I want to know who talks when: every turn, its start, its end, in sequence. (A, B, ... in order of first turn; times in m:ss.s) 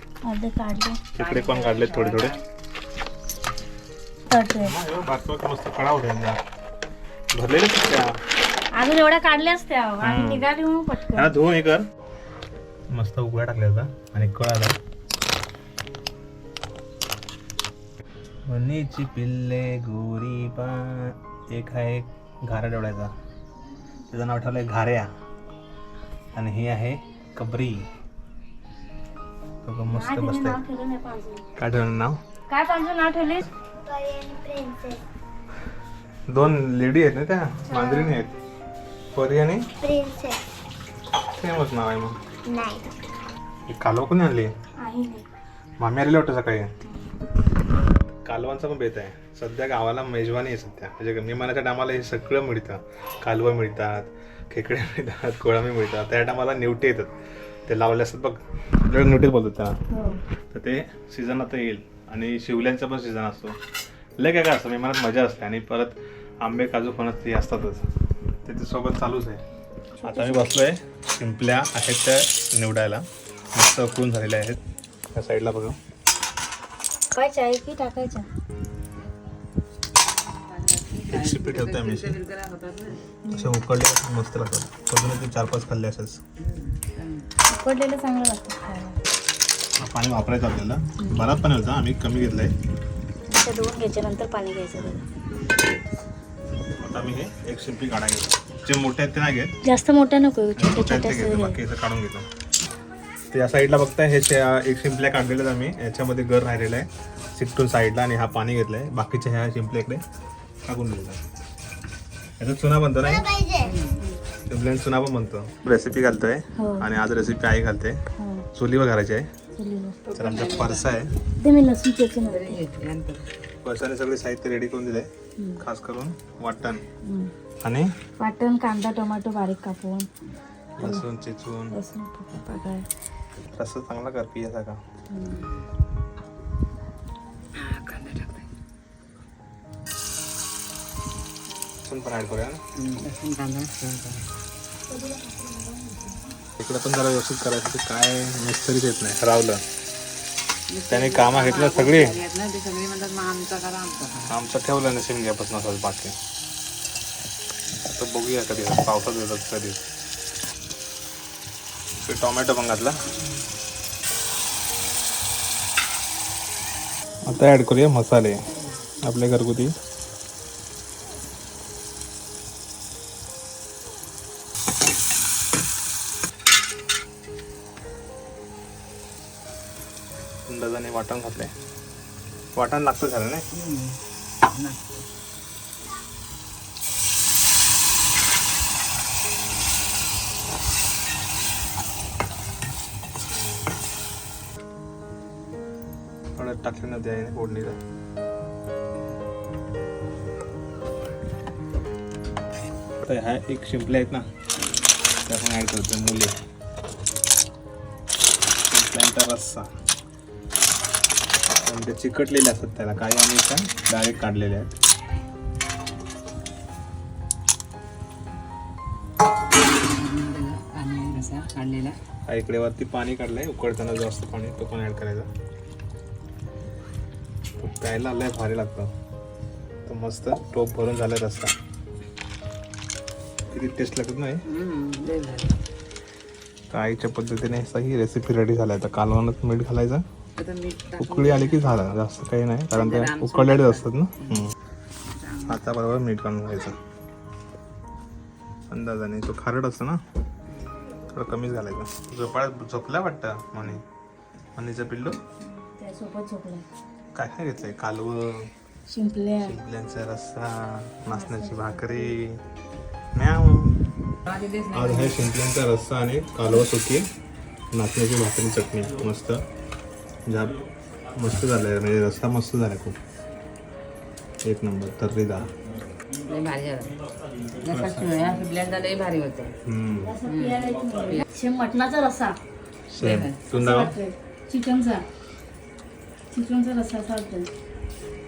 0:00.2-0:01.0 A
0:01.1-0:02.3 B
0:01.2-0:02.4 C
0:04.3-0:04.7 A
0:04.6-0:06.4 B
0:07.3-0:08.0 B
0:08.8-0:11.3 A
0:10.0-0:10.5 B
0:11.1-0:11.8 B
0:12.9-0:14.7 B
0:18.5-0:23.1 B
0:24.1-0:25.1 B
0:26.3-0:27.8 B
0:29.6-0:30.6 B
0:29.9-0:31.4 A
0:31.6-0:32.2 B
0:32.5-0:33.5 A
0:33.8-0:35.0 D
0:36.3-0:38.3 B
0:37.7-0:38.2 D
0:39.1-0:39.7 B
0:39.8-0:40.4 D
0:41.3-0:42.2 B
0:42.4-0:42.9 D
0:43.7-0:44.5 B
0:44.8-0:45.2 A
0:45.8-0:46.7 B
0:48.2-0:57.1 B
0:57.7-0:59.8 B
0:59.9-1:00.2 A
1:00.5-1:03.6 B
1:04.2-1:07.8 B
1:08.4-1:09.4 B
1:10.0-1:10.6 A
1:10.0-1:14.6 B
1:15.1-1:15.8 B
1:17.1-1:18.2 A
1:20.3-1:23.0 C
1:21.1-1:22.2 B
1:23.2-1:23.6 A
1:23.3-1:26.2 B
1:26.4-1:27.3 C
1:27.5-1:29.0 A
1:29.8-1:32.5 B
1:31.0-1:31.2 A
1:33.3-1:35.0 A
1:36.8-1:39.5 B
1:39.6-1:41.6 A
1:40.6-1:42.3 B
1:43.3-1:50.0 B
1:50.6-1:51.2 B
1:52.4-1:53.3 B
1:53.0-1:53.7 D
1:53.6-1:54.0 C
1:54.5-1:58.0 B
1:56.6-1:56.8 A
1:58.2-1:58.4 A
1:58.5-1:59.3 B
1:59.5-2:00.0 A
2:00.0-2:00.9 C
2:00.1-2:01.2 B
2:01.4-2:02.6 A
2:02.2-2:03.2 C
2:03.6-2:06.8 B
2:07.0-2:07.3 A
2:07.6-2:07.9 B
2:08.2-2:10.1 A
2:10.8-2:11.8 B
2:10.8-2:11.0 A
2:11.7-2:12.9 A
2:13.5-2:14.8 B
2:15.1-2:15.4 A
2:17.6-2:18.5 C
2:21.8-2:22.6 B
2:22.7-2:24.2 C
2:24.9-2:26.2 A
2:26.6-2:29.6 B
2:30.7-2:34.3 C
2:30.9-2:32.2 B
2:34.3-2:36.1 B
2:37.8-2:39.8 B
2:42.0-2:43.0 B
2:47.3-2:49.7 B
3:00.5-3:01.5 B
3:02.5-3:03.4 B
3:03.5-3:05.0 C
3:13.3-3:13.6 B
3:16.4-3:17.8 B
3:23.0-3:24.2 B
3:25.2-3:26.3 B
3:28.7-3:29.7 B
3:31.6-3:34.8 B
3:39.7-3:42.0 C
3:42.3-3:45.3 B
3:47.6-3:48.9 B
3:49.8-3:51.5 B
3:53.5-3:54.4 B
3:54.4-3:55.6 C
3:56.7-4:00.0 B
4:00.4-4:01.8 C
4:01.0-4:04.5 B
4:02.7-4:04.4 C
4:05.1-4:05.6 C
4:05.4-4:06.8 B
4:08.7-4:10.0 B
4:11.1-4:13.8 B
4:14.6-4:15.2 B
4:15.4-4:16.6 A
4:17.1-4:18.5 B
4:18.9-4:19.6 A
4:19.4-4:22.4 B
4:23.2-4:23.8 B
4:24.2-4:25.2 C
4:24.7-4:27.0 B
4:27.7-4:29.4 B
4:30.3-4:30.6 B
4:31.1-4:33.0 B
4:34.4-4:35.5 B
4:36.2-4:39.5 C
4:37.6-4:38.4 B
4:39.6-4:40.2 B
4:40.0-4:42.4 A
4:40.2-4:41.2 C
4:42.9-4:43.9 B
4:43.0-4:43.4 C
4:43.5-4:45.0 A
4:46.3-4:47.5 A